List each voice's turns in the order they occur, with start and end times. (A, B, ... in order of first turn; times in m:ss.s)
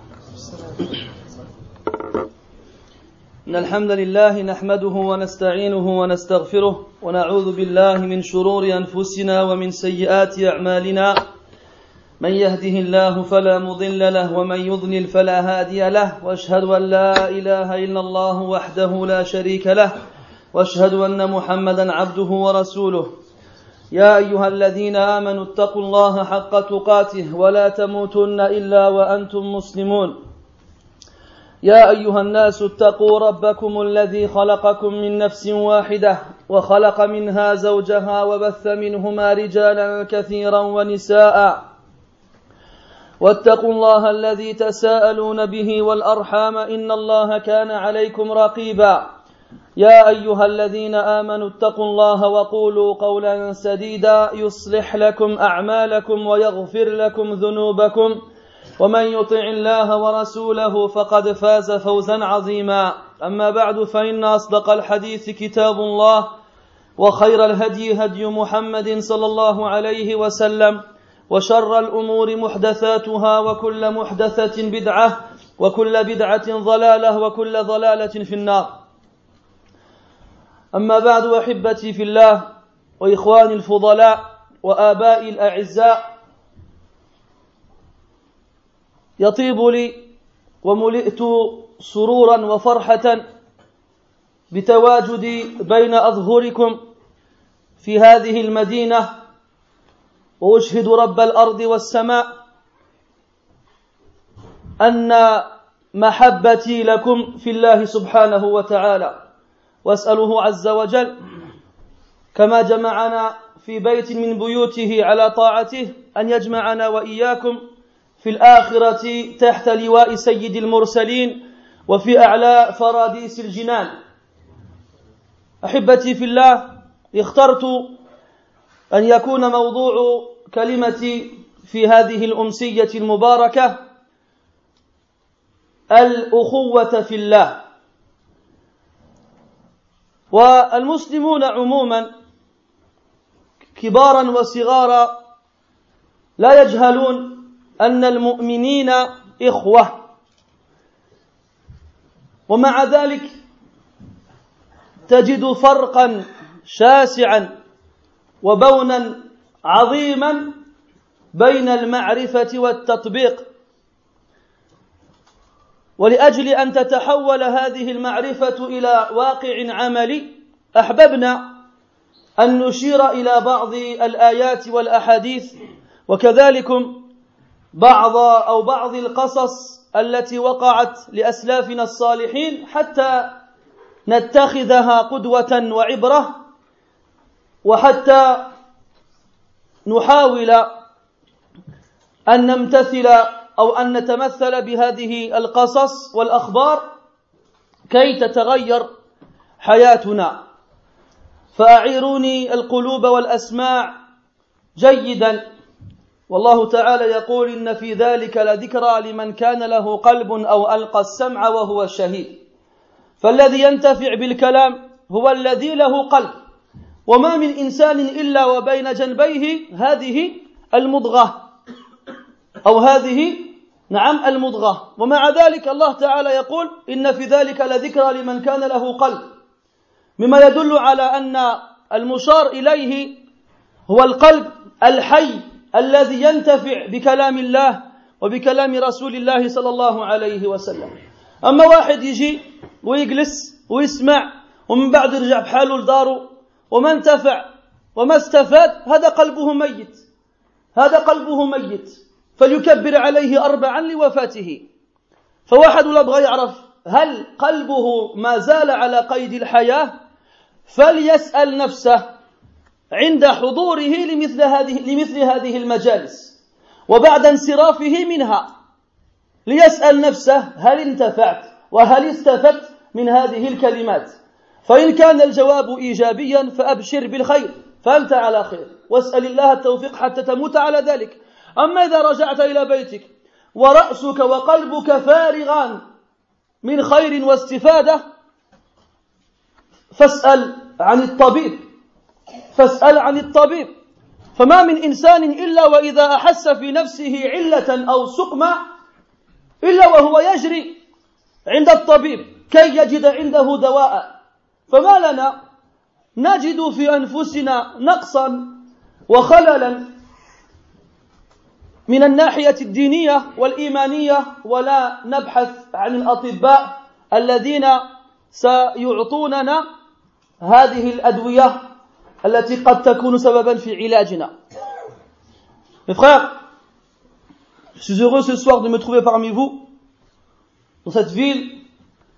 0:03.5-0:11.2 A
0:12.2-0:19.9 A
0:20.5-0:23.1 A
0:23.9-0:30.2 A
0:31.6-0:41.6 A
0:43.2-0:49.0 A
0:49.8-0:58.2 A
0:58.8-1:06.3 A
1:07.0-1:18.7 A
1:20.7-1:22.5 A
1:23.0-1:26.0 A
1:29.2-1:30.1 A
1:30.6-1:33.2 A
1:34.5-1:36.8 A
1:37.8-1:39.1 A
1:40.4-1:42.3 A
1:44.8-1:49.2 A
1:49.8-1:51.2 A
1:52.3-1:57.6 A
1:58.2-2:03.9 A
2:05.6-2:07.9 A
2:08.9-2:13.8 A
2:15.9-2:17.6 A
2:20.3-2:22.1 A
2:23.7-2:25.1 A
2:26.4-2:30.0 A
2:32.5-2:33.3 A
2:35.1-2:37.5 A
2:38.4-2:40.5 A
2:41.3-2:43.4 A
2:46.0-2:51.5 A
2:52.4-2:55.5 A
2:56.1-2:57.0 A
2:57.7-3:03.4 A
3:04.1-3:06.3 A
3:07.6-3:08.5 A
3:09.8-3:10.7 A
3:12.3-3:16.8 A
3:17.9-3:18.8 A
3:19.6-3:20.4 A
3:21.5-3:23.9 A
3:24.8-3:25.4 A
3:26.3-3:32.4 A
3:33.2-3:36.3 A
3:37.1-3:41.4 A
3:42.6-3:49.3 A
3:50.2-3:53.2 A
3:53.9-4:00.9 A
4:01.4-4:07.4 A
4:08.0-4:10.0 A
4:10.7-4:14.6 A
4:15.5-4:20.0 A
4:20.6-4:22.0 A
4:22.9-4:26.3 A
4:26.9-4:28.5 A
4:29.4-4:45.8 A
4:46.6-4:48.0 A
4:49.9-4:51.6 A
4:52.5-4:53.7 A
4:54.4-4:58.6 A
4:59.6-5:00.8 A
5:01.5-5:04.1 A
5:04.7-5:05.3 A
5:06.2-5:09.9 A
5:11.9-5:19.6 A
5:20.4-5:21.6 A
5:22.2-5:24.3 A
5:25.9-5:26.3 A
5:27.8-5:29.6 A
5:30.8-5:31.6 A